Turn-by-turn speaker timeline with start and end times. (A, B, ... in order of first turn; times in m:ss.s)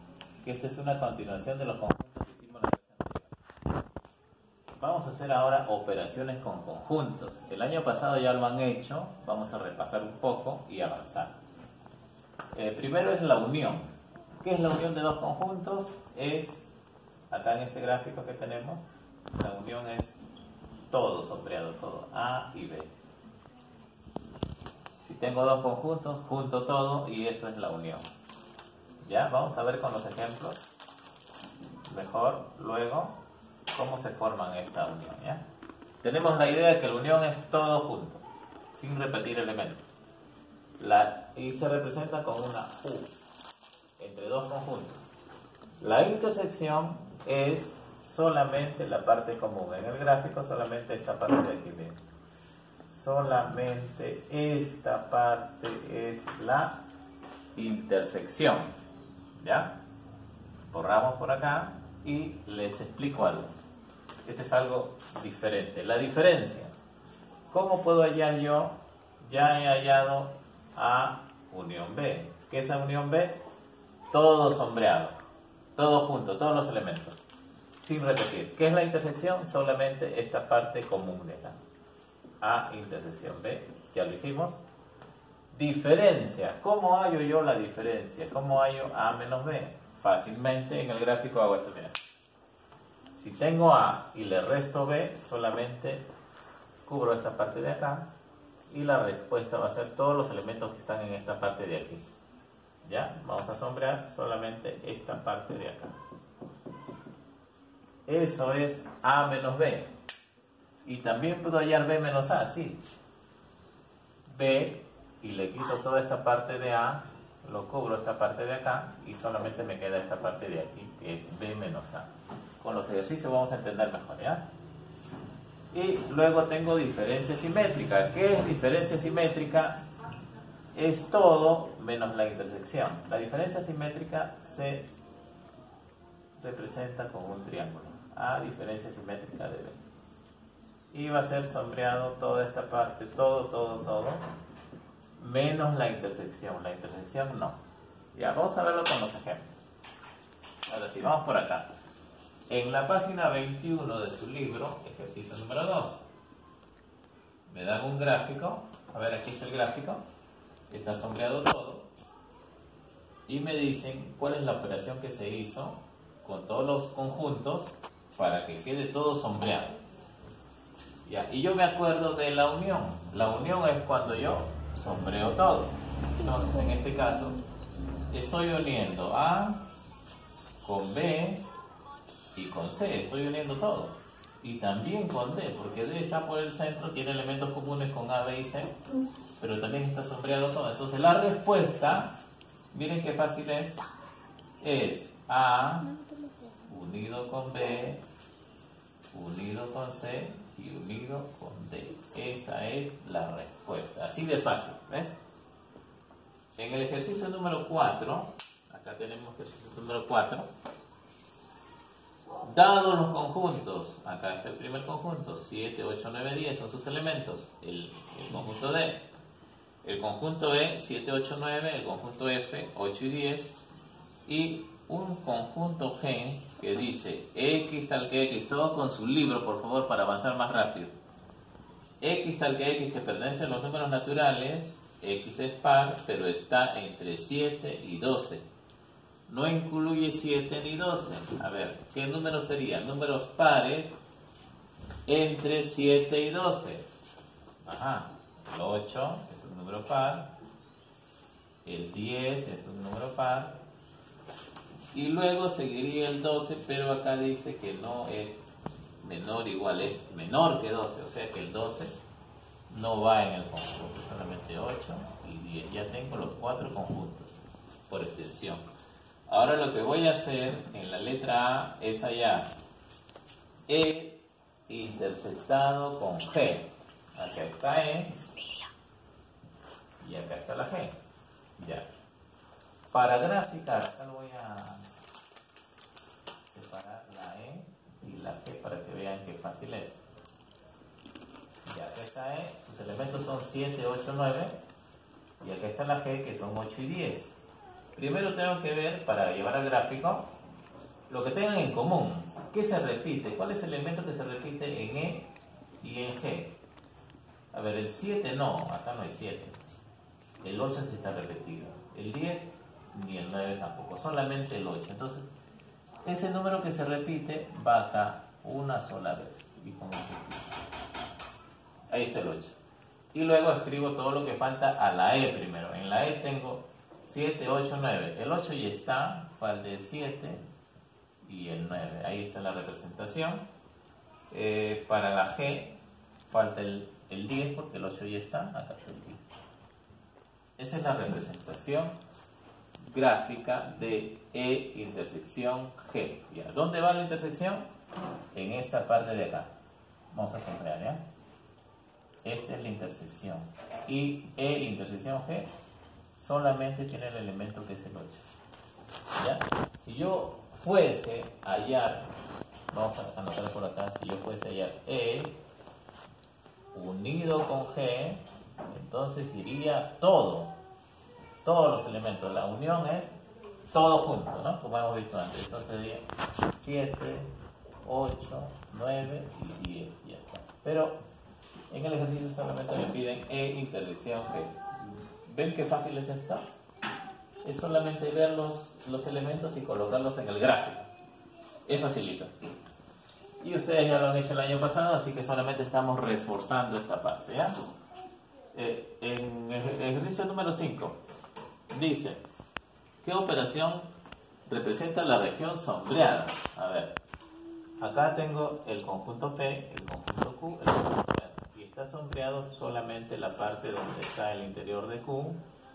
0:00.4-0:03.4 A
0:04.8-0:11.4 A
0:12.5-0:13.9 A
0:14.4-0:16.7 A
0:17.3-0:20.2 A
0:20.9-0:22.9 A
0:25.0-0:28.0 A
0:29.0-0:30.6 A
0:31.8-0:33.2 A
0:33.7-0:35.4 A
0:36.0-0:39.8 A
0:40.8-0:43.1 A
0:44.0-0:45.1 A
0:45.8-0:52.0 A
0:52.9-0:56.8 A
0:57.5-0:58.7 A
0:59.3-0:59.7 A
1:00.7-1:03.5 A
1:04.2-1:06.7 A
1:07.5-1:13.4 A
1:14.1-1:15.1 A
1:15.8-1:17.2 A
1:17.8-1:21.6 A
1:22.4-1:24.6 A
1:25.5-1:32.0 A
1:33.1-1:36.0 A
1:36.8-1:38.1 A
1:38.7-1:42.0 A
1:42.8-1:45.9 A
1:48.1-1:49.9 A
1:50.8-1:52.8 A
1:54.3-2:04.4 A
2:05.7-2:09.8 A
2:10.7-2:14.9 A
2:16.4-2:19.8 A
2:20.9-2:24.2 A
2:25.2-2:27.6 A
2:28.1-2:29.5 A
2:30.7-2:31.7 A
2:32.5-2:36.0 A
2:37.5-2:40.0 A
2:40.7-2:41.9 A
2:43.3-2:49.8 A
2:51.0-2:57.4 A
2:58.1-2:59.6 A
3:00.6-3:01.4 A
3:02.3-3:08.8 A
3:09.4-3:12.1 A
3:12.7-3:13.8 A
3:14.6-3:16.0 A
3:16.6-3:18.0 A
3:19.1-3:25.2 A
3:26.6-3:30.5 A
3:32.4-3:39.1 A
3:39.8-3:43.6 A
3:44.2-3:50.9 A
3:52.0-3:58.4 A
3:59.3-4:04.0 A
4:05.1-4:06.9 A
4:07.6-4:10.3 A
4:11.6-4:13.6 A
4:14.9-4:18.5 A
4:19.0-4:21.9 A
4:22.7-4:27.4 A
4:27.9-4:28.6 A
4:29.3-4:32.5 A
4:33.7-4:38.2 A
4:40.0-4:41.0 A
4:41.6-4:41.9 A
4:42.9-4:44.9 A
4:46.5-4:50.0 A
4:51.6-4:54.6 A
4:55.4-4:57.4 A
4:57.9-5:00.3 A
5:01.1-5:06.6 A
5:07.5-5:09.6 A
5:10.4-5:15.3 A
5:16.0-5:20.6 A
5:21.9-5:22.5 A
5:23.1-5:30.4 A
5:31.2-5:33.4 A
5:34.3-5:35.8 A
5:36.3-5:39.3 A
5:40.6-5:42.0 A
5:42.8-5:47.6 A
5:48.3-5:49.5 A
5:50.1-5:51.0 A
5:52.2-5:55.5 A
5:56.2-5:58.2 A
5:59.1-6:02.1 A
6:02.7-6:05.4 A
6:06.7-6:10.5 A
6:11.4-6:13.1 A
6:13.7-6:17.3 A
6:17.8-6:21.0 A
6:21.7-6:24.6 A
6:25.2-6:26.4 A
6:27.4-6:30.9 A
6:31.6-6:32.3 A
6:33.4-6:37.6 A
6:38.5-6:41.0 A
6:41.7-6:42.2 A
6:43.0-6:43.9 A
6:44.4-6:47.0 A
6:47.8-6:55.4 A